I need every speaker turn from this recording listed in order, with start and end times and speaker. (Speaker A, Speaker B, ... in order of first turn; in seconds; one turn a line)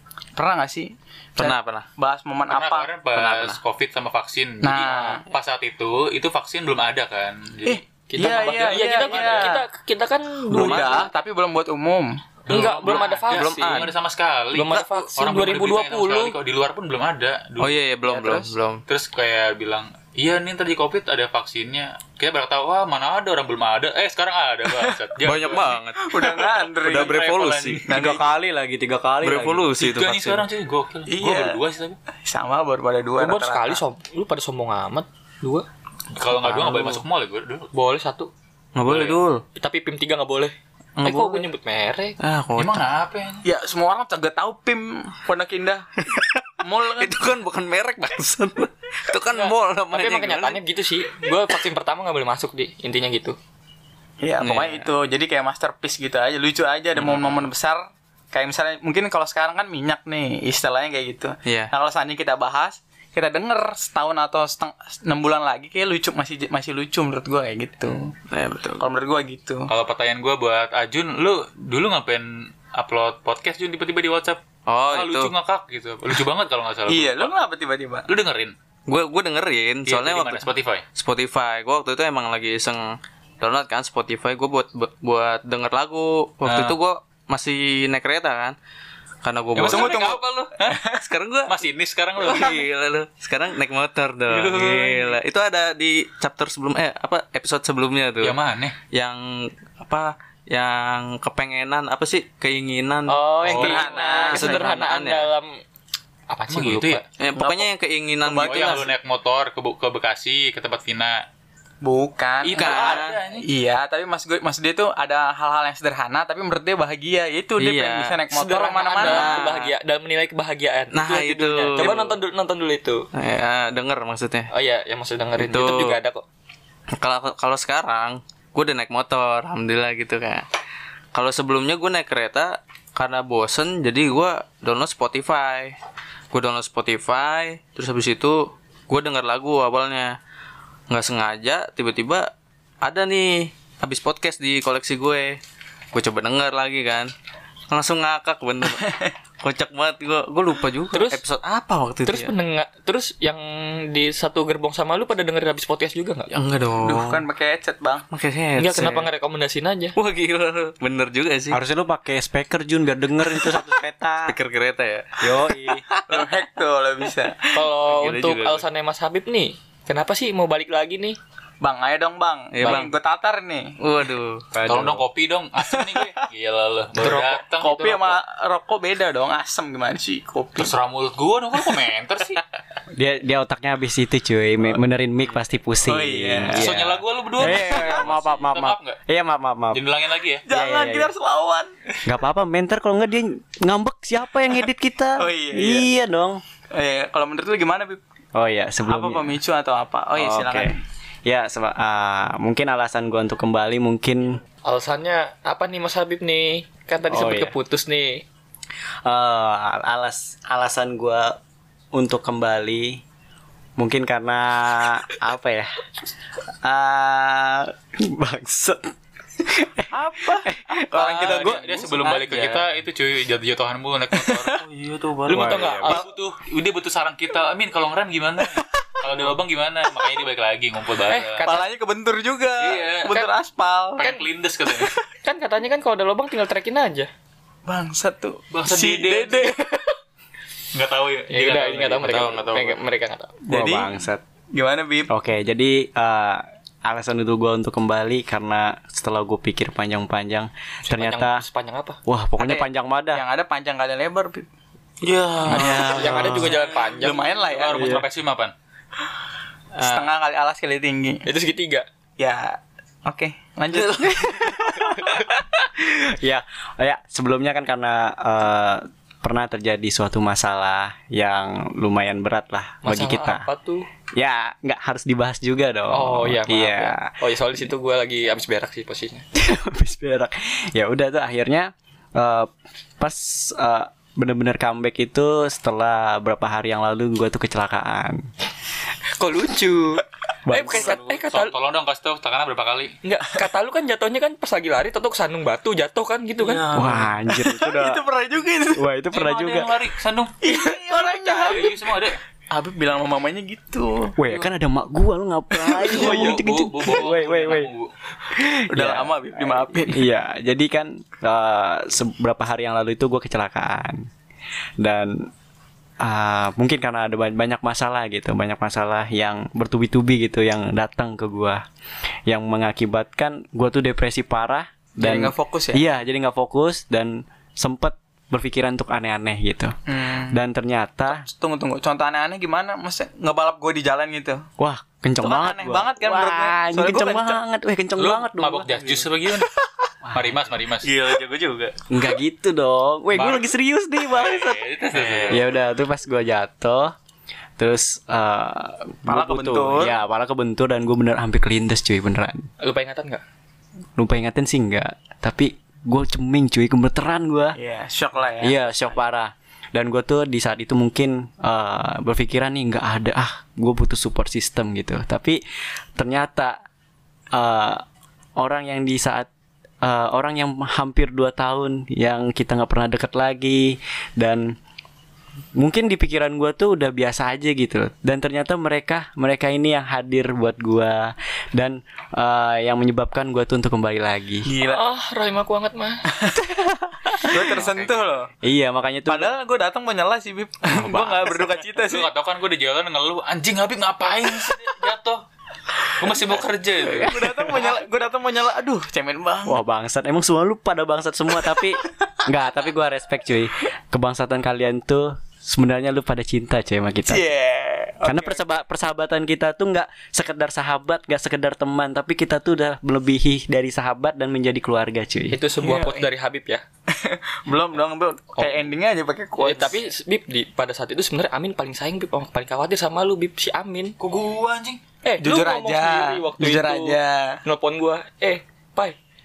Speaker A: 0.3-2.9
Speaker B: 1.4-1.9
Speaker C: 2.5-9.5
Speaker B: 3.1-3.6
Speaker A: 4.6-5.2
Speaker A: 7.7-9.6
Speaker D: 8.1-11.1
Speaker A: 10.5-12.1
Speaker B: 10.5-11.1
Speaker C: 12.4-17.8
Speaker D: 12.5-13.5
Speaker B: 12.5-13.9
Speaker D: 14.5-16.3
Speaker B: 17.6-18.8
Speaker D: 18.0-18.5
Speaker C: 18.9-25.8
Speaker A: 24.7-24.9
Speaker B: 25.2-27.9
Speaker A: 25.9-27.4
Speaker C: 26.9-27.9
Speaker A: 27.9-28.3
Speaker E: 27.9-29.7
Speaker B: 29.2-30.5
Speaker C: 29.8-32.0
Speaker A: 31.1-31.6
Speaker A: 32.2-33.8
Speaker D: 33.2-35.6
Speaker C: 36.1-37.7
Speaker B: 36.3-37.0
Speaker D: 37.7-38.3
Speaker B: 38.8-39.4
Speaker D: 38.9-42.2
Speaker B: 41.0-41.5
Speaker B: 42.2-42.9
Speaker C: 42.5-43.4
Speaker A: 43.4-46.0
Speaker B: 46.0-50.6
Speaker A: 46.6-47.4
Speaker D: 49.2-53.4
Speaker A: 54.2-57.8
Speaker B: 54.4-54.9
Speaker B: 57.0-57.5
Speaker A: 58.3-68.1
Speaker B: 61.5-61.7
Speaker B: 68.3-68.8
Speaker A: 68.8-69.6
Speaker C: 69.7-77.3
Speaker B: 74.7-75.3
Speaker A: 76.9-78.0
Speaker C: 78.1-78.5
Speaker B: 78.9-88.5
Speaker C: 79.8-80.8
Speaker C: 86.4-86.8
Speaker B: 89.2-90.5
Speaker A: 89.5-91.0
Speaker C: 89.5-90.8
Speaker B: 91.0-91.5
Speaker C: 91.5-92.7
Speaker B: 92.2-98.4
Speaker C: 94.3-95.1
Speaker C: 98.2-98.8
Speaker B: 98.9-105.3
Speaker D: 103.1-105.6
Speaker C: 103.5-103.8
Speaker A: 103.5-104.5
Speaker D: 106.3-107.0
Speaker C: 106.5-107.0
Speaker B: 107.2-108.9
Speaker A: 107.3-108.9
Speaker C: 108.4-111.2
Speaker A: 111.8-119.5
Speaker C: 112.4-113.5
Speaker B: 112.5-113.2
Speaker B: 117.6-118.2
Speaker D: 118.3-123.0
Speaker B: 119.0-119.7
Speaker B: 120.9-122.2
Speaker B: 123.1-124.5
Speaker D: 124.5-126.2
Speaker B: 125.3-126.0
Speaker B: 127.0-130.5
Speaker B: 131.1-135.8
Speaker B: 136.3-140.1
Speaker B: 140.9-142.3
Speaker B: 142.8-145.4
Speaker B: 145.9-147.1
Speaker B: 147.7-148.8
Speaker A: 148.6-149.1
Speaker B: 149.4-152.3
Speaker D: 150.9-151.2
Speaker D: 152.0-156.3
Speaker B: 156.3-157.2
Speaker A: 156.8-158.0
Speaker B: 158.1-159.1
Speaker D: 158.6-159.9
Speaker B: 159.9-161.6
Speaker E: 161.5-164.3
Speaker B: 163.3-163.7
Speaker B: 164.3-165.3
Speaker E: 165.2-165.8
Speaker B: 165.9-166.4
Speaker A: 166.1-167.5
Speaker D: 167.5-171.2
Speaker B: 167.7-168.7
Speaker A: 171.6-173.7
Speaker B: 172.5-172.9
Speaker B: 173.8-174.5
Speaker E: 174.5-175.0
Speaker C: 174.6-178.2
Speaker A: 175.6-176.1
Speaker A: 177.0-180.8
Speaker C: 180.6-182.4
Speaker E: 182.9-189.8
Speaker A: 185.8-186.6
Speaker C: 186.5-189.0
Speaker A: 187.5-188.0
Speaker C: 189.7-190.4
Speaker A: 190.4-191.7
Speaker E: 190.5-191.1
Speaker E: 192.1-196.4
Speaker A: 195.2-195.9
Speaker A: 196.7-198.0
Speaker E: 198.3-199.3
Speaker A: 198.9-200.8
Speaker E: 200.2-204.4
Speaker D: 204.6-208.2
Speaker E: 207.1-207.6
Speaker E: 209.1-211.3
Speaker E: 211.9-213.0
Speaker E: 213.8-215.7
Speaker E: 216.6-218.9
Speaker E: 219.5-221.8
Speaker A: 220.0-220.5
Speaker C: 220.9-224.5
Speaker B: 221.1-222.6
Speaker B: 224.5-225.7
Speaker D: 225.3-226.0
Speaker E: 225.3-226.0
Speaker C: 225.5-231.4
Speaker D: 231.1-231.7
Speaker A: 231.4-234.0
Speaker C: 232.6-233.3
Speaker C: 234.0-234.9
Speaker D: 234.0-234.2
Speaker D: 235.2-237.1
Speaker A: 237.7-239.8
Speaker C: 238.5-239.5
Speaker C: 240.7-242.7
Speaker D: 241.3-243.3
Speaker B: 242.3-242.7
Speaker A: 243.4-243.9
Speaker E: 243.5-244.2
Speaker A: 244.5-245.1
Speaker E: 245.1-251.4
Speaker D: 250.8-252.0
Speaker E: 252.1-253.2
Speaker A: 252.4-254.4
Speaker B: 255.0-256.6
Speaker E: 255.5-256.5
Speaker D: 255.5-257.3
Speaker A: 255.6-256.3
Speaker A: 257.0-258.0
Speaker C: 257.4-258.5
Speaker E: 257.8-258.0
Speaker A: 259.8-261.2
Speaker D: 261.2-261.9
Speaker A: 262.2-264.0
Speaker B: 263.8-265.0
Speaker E: 264.1-265.2
Speaker E: 265.8-273.5
Speaker D: 272.8-273.9
Speaker E: 274.2-277.1
Speaker D: 275.9-279.2
Speaker E: 279.3-282.5
Speaker E: 283.0-288.2
Speaker D: 289.2-291.5
Speaker E: 290.5-291.0
Speaker C: 290.8-292.9
Speaker D: 293.0-296.6
Speaker B: 296.5-297.1
Speaker E: 296.7-298.0
Speaker A: 297.3-298.8
Speaker E: 298.8-299.7
Speaker C: 299.1-302.2
Speaker A: 300.4-301.8
Speaker A: 302.5-304.3
Speaker E: 304.2-307.7
Speaker A: 305.5-306.1
Speaker C: 305.9-307.9
Speaker D: 306.0-306.4
Speaker E: 308.3-314.0
Speaker A: 308.7-310.0
Speaker E: 314.8-315.3
Speaker E: 316.0-321.6
Speaker E: 322.3-329.7
Speaker A: 325.0-325.8
Speaker A: 329.9-330.4
Speaker E: 330.3-331.2
Speaker A: 331.1-334.4
Speaker E: 334.6-338.7
Speaker A: 335.2-337.4
Speaker C: 338.0-339.5
Speaker C: 340.1-340.9
Speaker B: 340.8-341.8
Speaker E: 341.9-344.6
Speaker C: 343.1-343.6
Speaker C: 344.1-345.4
Speaker B: 344.8-345.4
Speaker E: 345.3-346.9
Speaker E: 347.6-352.5
Speaker A: 349.1-350.0
Speaker D: 352.6-353.2
Speaker E: 354.0-357.6
Speaker A: 357.6-358.6
Speaker E: 358.4-365.4
Speaker E: 366.0-366.6
Speaker E: 367.3-367.8
Speaker E: 368.4-369.3
Speaker E: 369.8-374.6
Speaker E: 375.6-384.5
Speaker A: 384.5-384.8
Speaker D: 384.7-386.0
Speaker A: 386.1-386.4
Speaker E: 386.7-387.1
Speaker A: 387.1-388.3
Speaker B: 387.7-388.0
Speaker E: 388.4-389.3
Speaker A: 389.1-392.1
Speaker E: 390.7-391.3
Speaker C: 391.8-395.2
Speaker C: 396.0-397.7
Speaker A: 396.9-399.6
Speaker E: 399.5-407.3
Speaker A: 407.1-408.4
Speaker E: 408.0-415.4
Speaker D: 415.3-416.6
Speaker A: 416.9-419.8
Speaker D: 419.4-424.0
Speaker C: 424.0-424.8
Speaker D: 425.0-429.0
Speaker A: 425.2-427.4